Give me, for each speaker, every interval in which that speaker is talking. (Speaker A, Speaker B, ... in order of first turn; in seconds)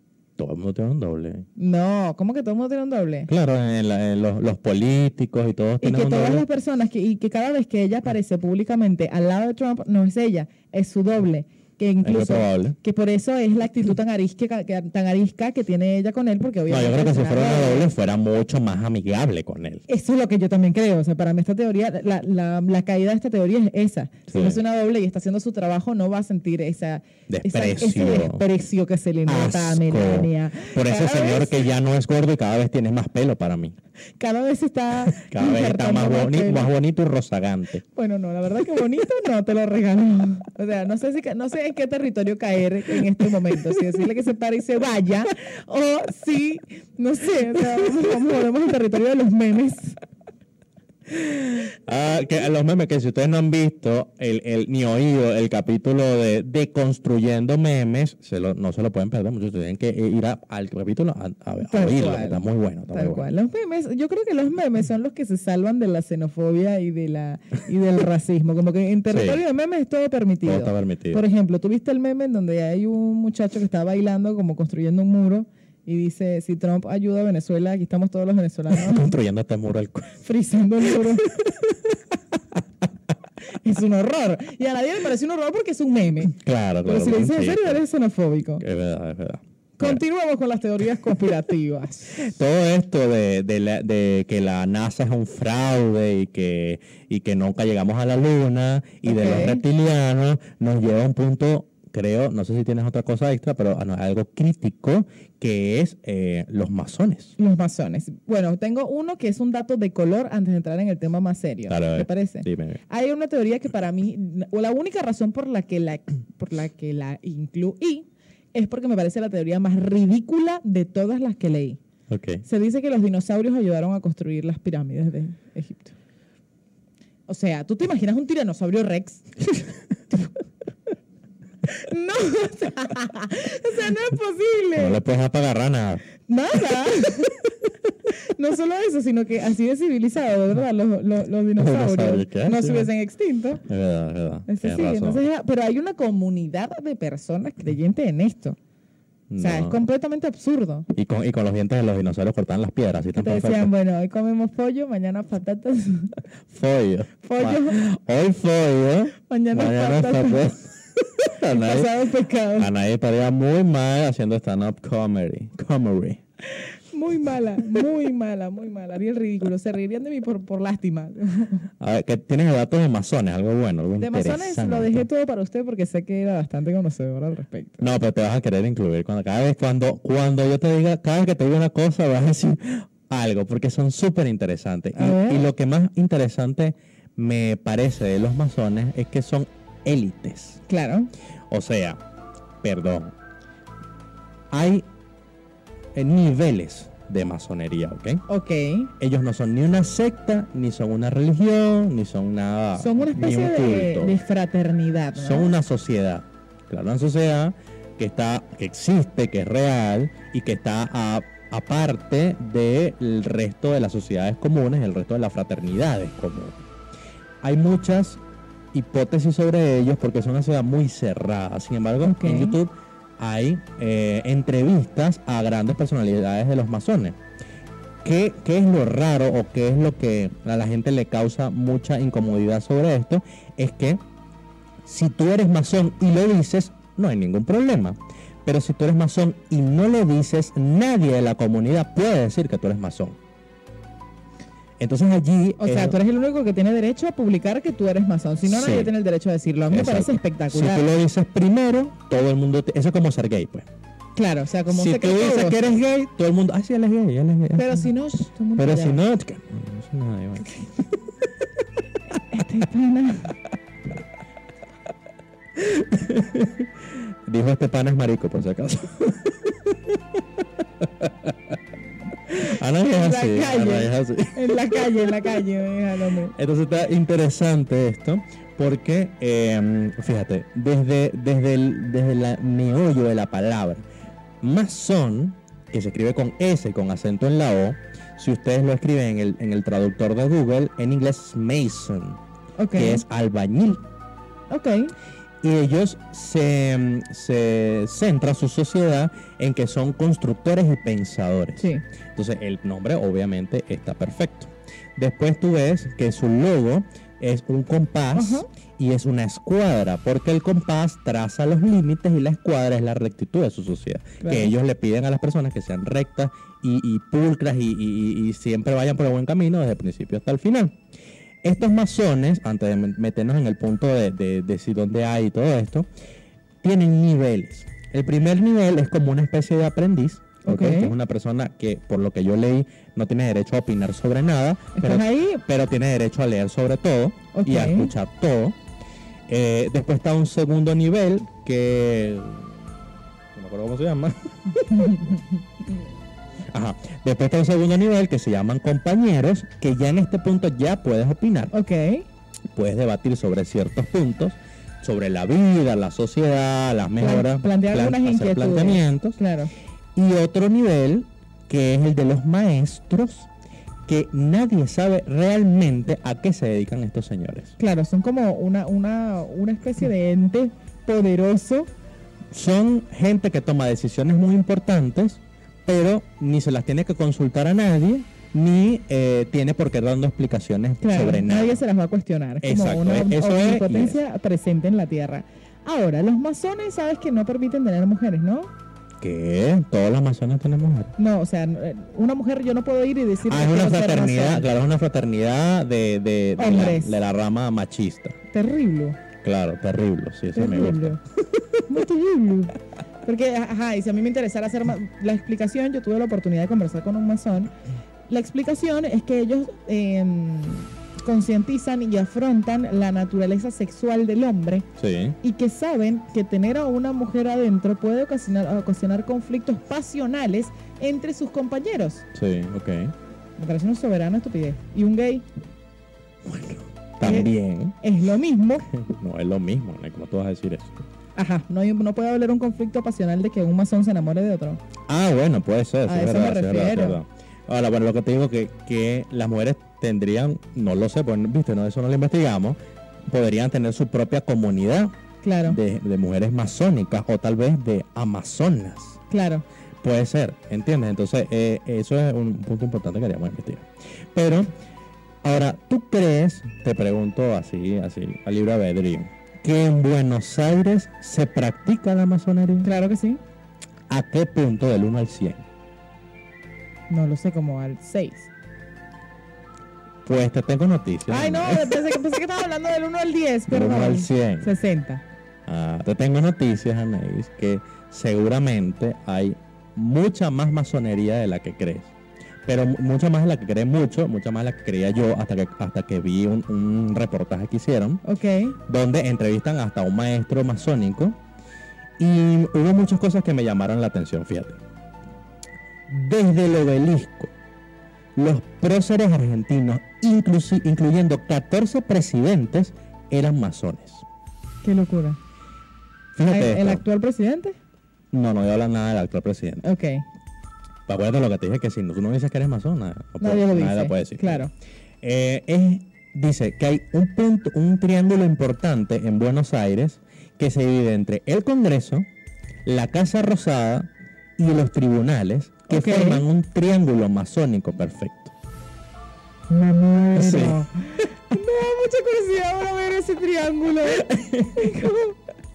Speaker A: 0.4-1.5, 3.3-6.4, 12.0-12.8, 16.7-19.8, 24.3-24.6, 27.3-28.4, 29.3-33.8, 35.2-37.8, 51.6-63.3, 69.1-69.4, 70.5-71.2, 78.7-80.1, 81.3-82.0, 86.3-87.8, 88.6-90.0, 92.2-107.3, 111.7-112.8, 122.1-122.5, 134.8-136.1, 141.6-142.9, 143.7-145.2, 149.3-149.8, 150.9-153.7, 156.5-161.9, 162.6-166.2, 171.8-175.1, 177.8-190.6, 191.5-192.0, 192.6-193.1, 194.5-194.9, 195.9-198.2, 199.0-204.2, 205.2-216.6, 217.4-218.2, 218.7-227.2, 228.0-234.0, 234.8-243.2, 244.8-246.0, 248.4-248.9, 249.7-253.7, 254.7-257.9, 258.6-261.0, 265.6-270.2, 270.8-271.4, 272.3-275.4, 276.4-283.8, 284.4-292.2, 292.8-293.8, 295.4-320.8, 321.4-325.9, 326.6-338.6, 339.3-342.6, 343.4-345.1, 346.5-351.5, 352.5-359.2, 359.9-363.3, 363.9-367.6, 372.3-381.6, 382.4-384.0, 389.0-390.9, 393.3-398.2, 399.2-401.6, 414.8-415.2, 422.1-422.9, 426.2-427.8, 428.7-430.8, 434.9-442.6, 443.1-444.9, 445.5-449.0, 449.8-454.5, 455.2-462.7, 463.9-465.4, 470.1-471.8, 473.5-474.5, 475.5-481.9, 482.5-488.0, 488.7-491.2, 492.0-494.6, 495.9-497.3, 498.2-504.1, 506.1-506.8, 508.1-509.6, 510.9-514.5, 515.0-522.1, 522.6-528.3, 530.1-530.7, 533.9-534.9
Speaker B: 1.6-3.3, 5.8-17.9, 19.9-31.6, 34.2-36.7, 38.0-50.0, 61.6-79.1, 80.2-81.3, 83.6-88.6, 89.8-92.3, 99.0-99.6, 107.4-121.8, 122.5-126.0, 127.3-129.3, 131.7-135.0, 136.3-137.5, 138.1-143.6, 144.5-148.6, 149.4-150.9, 153.2-156.2, 157.2-157.8, 159.2-160.4, 161.5-162.7, 166.5-171.7, 174.0-177.8, 184.9-185.5, 190.7-191.1, 198.3-198.9, 202.8-205.5, 222.0-222.6, 245.6-250.9, 254.2-255.6, 257.6-259.0, 262.3-263.4, 272.8-276.4, 292.6-293.0, 294.5-294.9, 301.6-301.8, 308.2-308.5, 314.2-314.5, 330.4-330.9, 334.8-335.4, 337.3-337.9, 344.6-345.2, 351.5-352.1, 357.0-359.5, 367.6-371.7, 380.8-388.5, 391.0-394.5, 396.4-397.0, 398.3-399.0, 400.3-401.0, 401.7-402.6, 403.1-407.5, 408.1-414.7, 415.2-422.1, 423.4-425.3, 427.0-428.7, 431.2-434.6, 435.9-437.0, 445.2-445.6, 449.1-449.4, 462.6-463.2, 466.9-468.3, 471.1-475.0, 488.0-488.6, 504.6-505.2, 506.3-507.6, 509.6-510.1, 513.2-514.5, 525.7-526.2, 529.5-535.2